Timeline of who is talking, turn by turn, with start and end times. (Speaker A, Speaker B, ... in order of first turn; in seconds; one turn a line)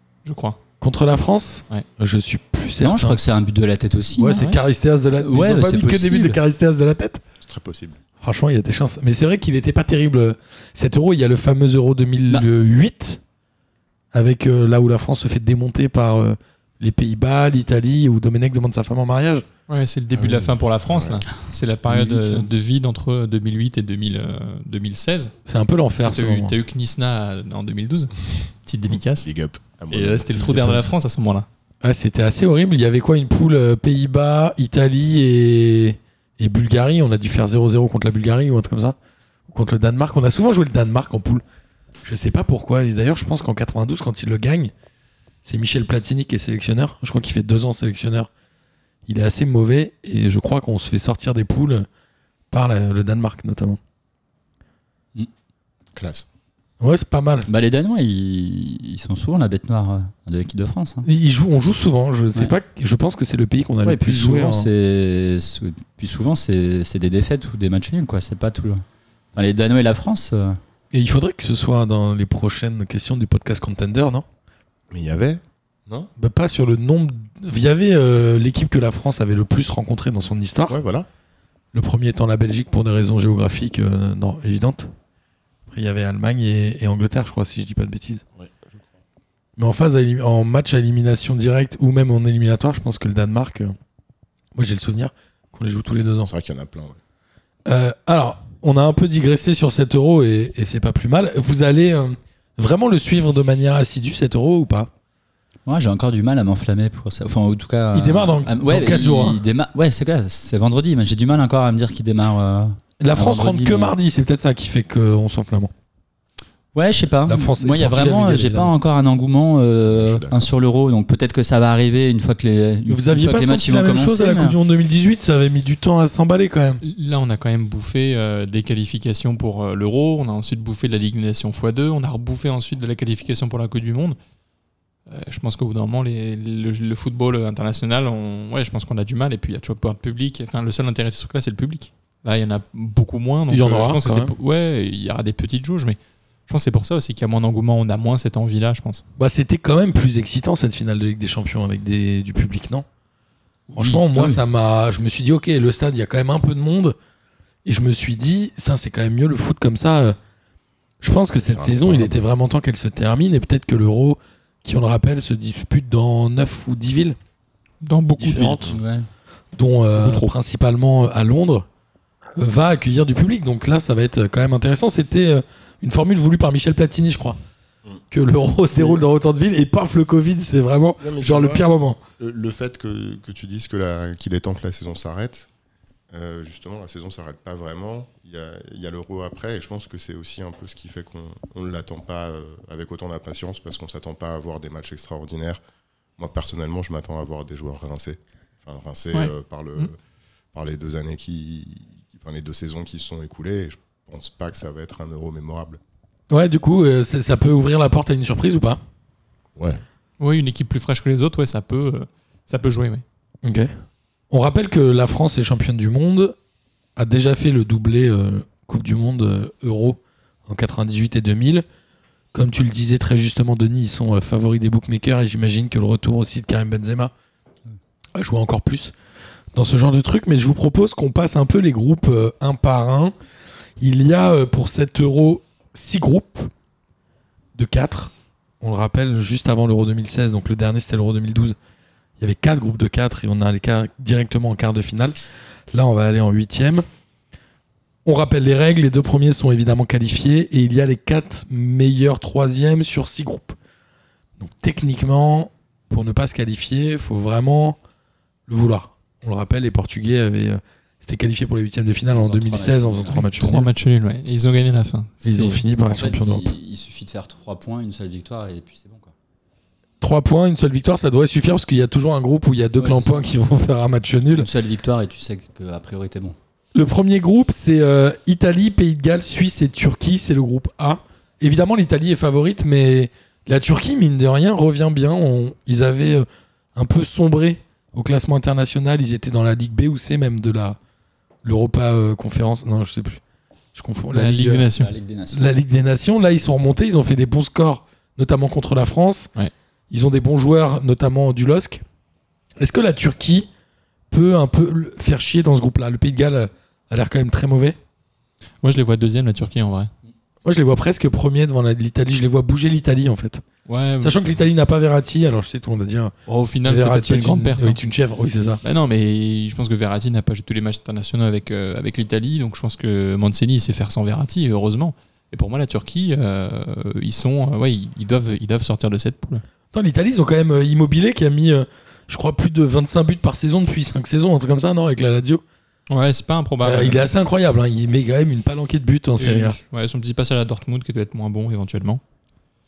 Speaker A: 0.2-0.6
Speaker B: 0.8-3.2
Speaker C: 2.8-4.6
Speaker B: 4.2-7.2
Speaker C: 5.2-6.4
Speaker D: 7.4-8.0
Speaker B: 8.2-13.2
Speaker B: 14.1-19.4
Speaker A: 19.7-25.3
Speaker D: 20.1-21.2
Speaker B: 21.9-22.5
Speaker B: 25.4-26.6
Speaker A: 26.0-29.3
Speaker D: 29.2-30.9
Speaker A: 29.9-31.5
Speaker B: 31.8-39.0
Speaker B: 39.5-41.4
Speaker B: 42.0-44.7
Speaker B: 45.4-48.3
Speaker B: 49.1-51.9
Speaker B: 52.5-53.8
Speaker D: 56.0-56.3
Speaker B: 56.8-57.5
Speaker C: 57.5-61.1
Speaker B: 61.0-64.7
Speaker C: 63.8-68.8
Speaker C: 69.3-70.6
Speaker B: 70.9-74.2
Speaker D: 74.9-76.1
Speaker B: 76.2-80.8
Speaker D: 80.7-81.1
Speaker B: 81.7-84.9
Speaker B: 85.7-88.2
Speaker D: 88.4-88.8
Speaker B: 89.6-93.8
Speaker B: 94.5-96.3
Speaker D: 96.2-97.0
Speaker B: 97.7-104.9
Speaker C: 105.7-113.9
Speaker B: 107.9-109.4
Speaker B: 113.0-115.7
Speaker C: 116.7-124.6
Speaker B: 117.3-118.7
Speaker D: 119.9-120.5
Speaker B: 122.9-126.8
Speaker A: 126.8-134.2
Speaker A: 135.1-149.0
Speaker B: 143.5-144.3
Speaker B: 149.2-152.9
Speaker B: 153.7-157.0
Speaker C: 153.8-154.4
Speaker B: 157.7-160.2
Speaker B: 161.0-167.2
Speaker D: 161.4-162.2
Speaker A: 167.8-168.8
Speaker B: 168.2-168.8
Speaker C: 168.7-169.1
Speaker B: 169.5-171.7
Speaker A: 170.0-170.3
Speaker B: 172.4-177.4
Speaker B: 178.1-182.0
Speaker D: 181.0-181.7
Speaker D: 182.2-185.5
Speaker D: 186.1-195.6
Speaker D: 196.2-199.9
Speaker A: 199.1-199.9
Speaker D: 200.5-205.8
Speaker B: 206.3-208.8
Speaker D: 209.6-209.8
Speaker A: 210.2-213.0
Speaker B: 213.4-213.7
Speaker B: 214.3-216.4
Speaker B: 217.0-221.7
Speaker B: 222.3-227.1
Speaker B: 228.2-228.9
Speaker B: 229.5-233.1
Speaker B: 233.8-236.5
Speaker B: 237.6-241.6
Speaker B: 242.2-245.2
Speaker B: 245.7-246.8
Speaker B: 248.1-253.6
Speaker B: 254.4-257.8
Speaker B: 258.5-263.7
Speaker C: 262.1-263.3
Speaker A: 263.2-265.6
Speaker B: 265.2-266.5
Speaker C: 265.9-269.1
Speaker B: 270.0-274.5
Speaker C: 272.8-273.2
Speaker C: 274.3-276.4
Speaker B: 276.7-290.8
Speaker B: 291.4-293.2
Speaker B: 293.7-294.7
Speaker A: 294.1-294.9
Speaker C: 294.8-295.6
Speaker B: 295.3-299.3
Speaker B: 299.9-301.8
Speaker B: 302.6-303.5
Speaker B: 304.1-307.8
Speaker A: 308.6-309.9
Speaker B: 310.4-313.4
Speaker A: 313.7-314.2
Speaker B: 314.0-316.1
Speaker A: 316.3-317.8
Speaker B: 316.6-318.6
Speaker A: 318.6-329.4
Speaker B: 329.7-335.4
Speaker A: 335.9-337.1
Speaker B: 336.6-339.6
Speaker A: 339.2-342.0